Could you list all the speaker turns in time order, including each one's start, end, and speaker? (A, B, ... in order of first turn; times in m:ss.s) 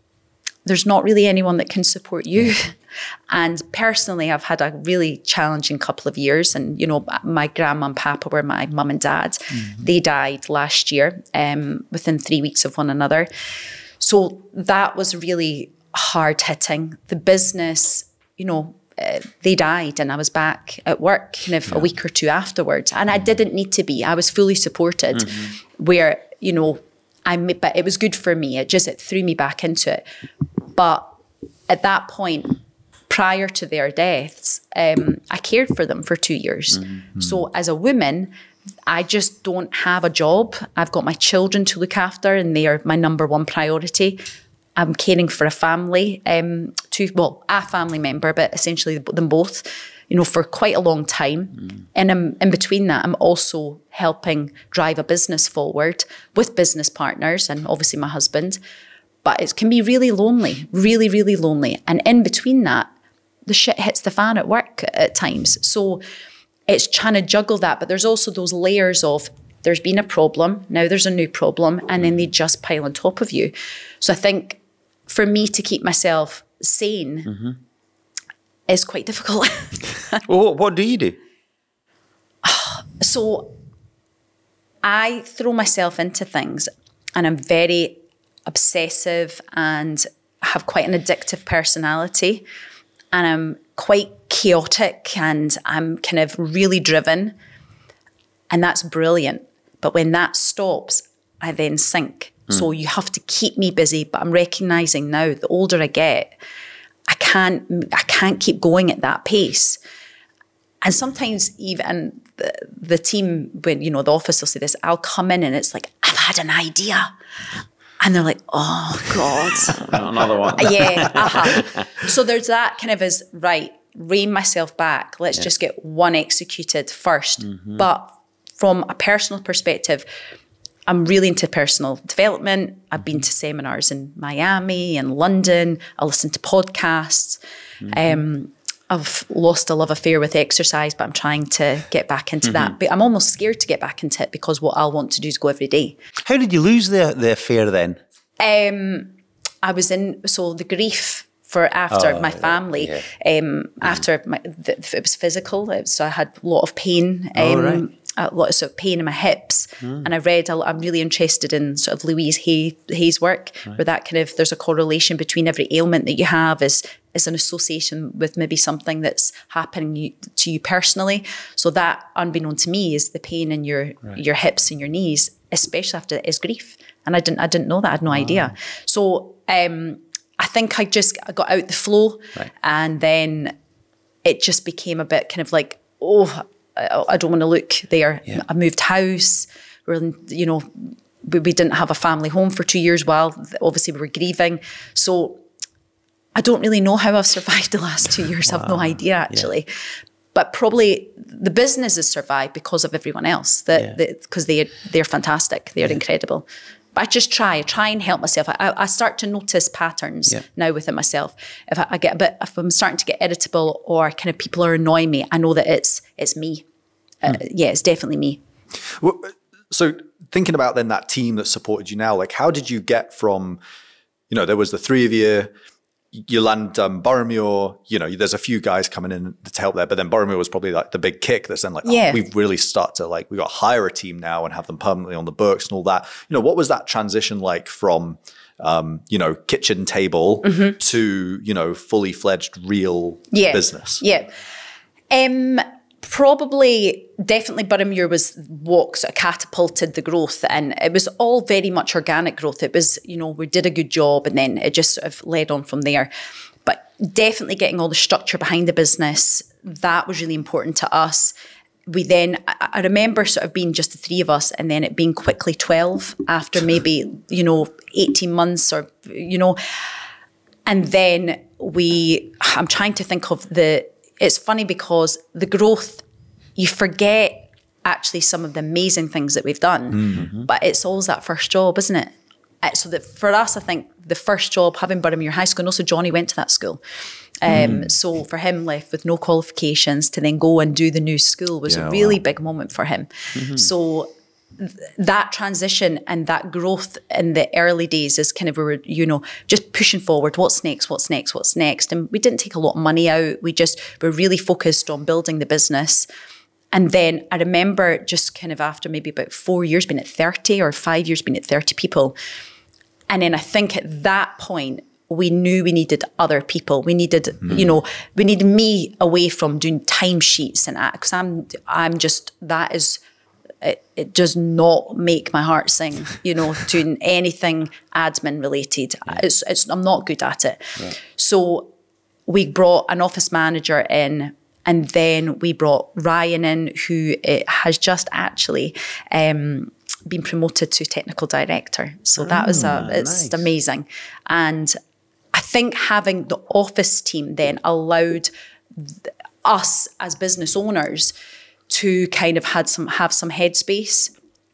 0:00.6-0:02.8 A
0:03.3-0:13.3 A
0:14.0-0:30.0 A
0:30.7-0:31.1 A
0:31.7-0:32.6 A
0:33.1-0:38.3 A
0:38.9-0:44.2 A
0:44.8-0:58.6 A
0:59.2-1:02.9 A
1:03.4-1:06.0 A
1:06.7-1:17.4 A
1:18.7-1:20.2 A
1:20.2-1:21.2 B
1:22.4-1:23.5 A
1:24.8-1:32.4 A
1:33.1-1:37.3 A
1:38.5-1:46.3 A
1:47.1-1:49.8 A
1:50.8-1:57.1 A
1:58.0-2:10.0 A
1:59.8-2:01.9 B
2:10.9-2:26.0 A
2:17.8-2:18.2 B
2:26.2-2:28.0 B
2:28.4-3:03.6 A
2:31.9-2:33.0 B
2:37.4-2:37.8 B
2:58.2-2:58.4 B
3:04.2-3:15.4 A
3:16.4-3:19.7 A
3:18.5-3:18.9 B
3:20.3-3:36.6 A
3:37.2-3:38.4 A
3:39.0-3:43.6 C
3:44.3-3:45.5 C
3:46.1-4:04.0 C
3:51.8-3:52.2 A
4:00.4-4:00.8 A
4:03.3-4:04.3 A
4:05.1-4:16.1 A
4:16.6-4:21.3 A
4:21.9-4:29.6 A
4:30.6-4:36.0 A
4:36.6-4:46.8 A
4:47.4-5:06.1 A
4:47.5-4:47.9 C
4:51.7-4:52.2 C
4:53.4-4:53.7 B
5:06.7-5:12.2 A
5:13.1-5:23.0 A
5:23.6-5:31.7 A
5:32.3-5:44.8 A
5:42.2-5:43.5 B
5:45.3-5:51.1 A
5:51.7-5:54.1 A